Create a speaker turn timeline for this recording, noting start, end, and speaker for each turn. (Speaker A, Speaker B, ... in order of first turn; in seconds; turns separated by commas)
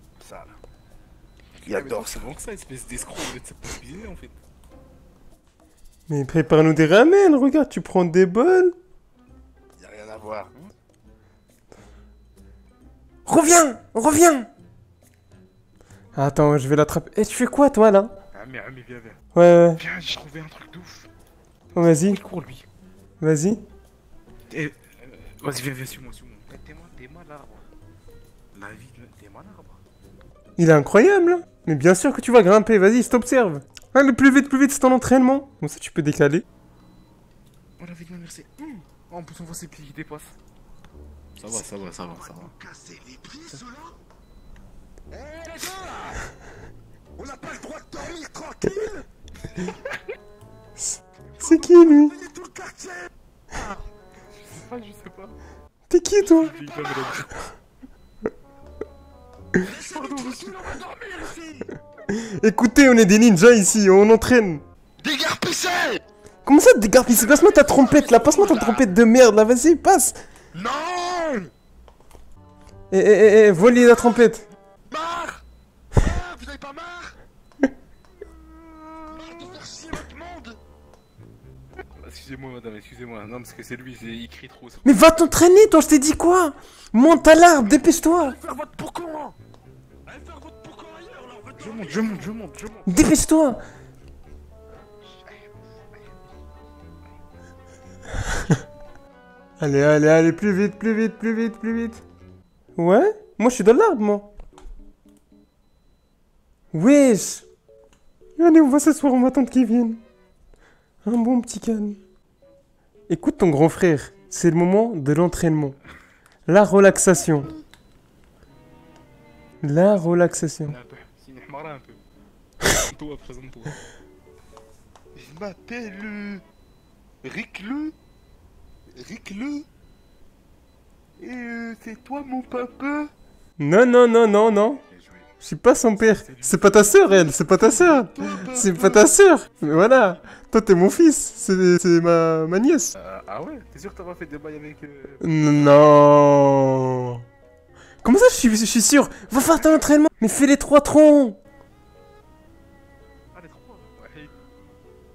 Speaker A: 0.2-0.5, Speaker A: 1.6-2.2, Speaker B: 1.6-4.3, Speaker C: 6.1-8.7, Speaker A: 9.8-10.5, Speaker C: 13.2-14.5, Speaker C: 16.1-18.1, Speaker B: 18.3-19.2, Speaker C: 19.3-19.8, Speaker B: 19.8-21.1, Speaker C: 21.8-22.2, Speaker B: 21.8-22.6, Speaker C: 23.2-23.6, Speaker B: 24.5-27.7, Speaker B: 28.5-29.8, Speaker C: 30.6-36.4, Speaker B: 37.8-40.4, Speaker B: 41.4-42.5, Speaker A: 41.5-44.0, Speaker A: 45.1-46.2, Speaker A: 47.2-49.0, Speaker B: 49.5-50.0, Speaker C: 50.8-52.1, Speaker A: 51.4-53.6, Speaker B: 54.3-55.4, Speaker C: 55.9-56.5, Speaker B: 56.2-57.5, Speaker A: 56.4-57.2, Speaker A: 59.6-61.7, Speaker B: 59.6-60.8, Speaker C: 62.1-64.6, Speaker A: 65.0-66.0, Speaker C: 66.4-70.2, Speaker A: 67.2-68.8, Speaker A: 70.5-71.5, Speaker C: 72.9-74.5, Speaker A: 73.8-74.2, Speaker A: 74.9-77.2, Speaker A: 78.6-80.6, Speaker B: 81.8-85.0, Speaker C: 84.8-88.4, Speaker A: 88.2-89.3, Speaker A: 90.0-92.3, Speaker B: 91.6-92.9, Speaker C: 92.8-93.6, Speaker C: 99.6-102.0, Speaker C: 102.8-104.3, Speaker C: 106.7-107.4, Speaker C: 108.4-110.0, Speaker C: 111.0-112.0, Speaker C: 113.1-115.8, Speaker C: 116.5-117.5, Speaker C: 119.6-120.7, Speaker B: 120.6-122.0, Speaker B: 122.8-123.8, Speaker A: 125.1-126.4, Speaker A: 127.2-127.9, Speaker A: 128.9-129.7, Speaker A: 131.2-133.1, Speaker C: 133.6-134.8, Speaker B: 134.9-135.3, Speaker C: 135.4-142.9, Speaker B: 136.0-137.3, Speaker A: 137.5-139.1, Speaker B: 139.6-140.2, Speaker B: 142.9-145.3, Speaker C: 145.2-147.2, Speaker C: 148.0-151.4, Speaker B: 149.5-149.9, Speaker B: 153.3-154.3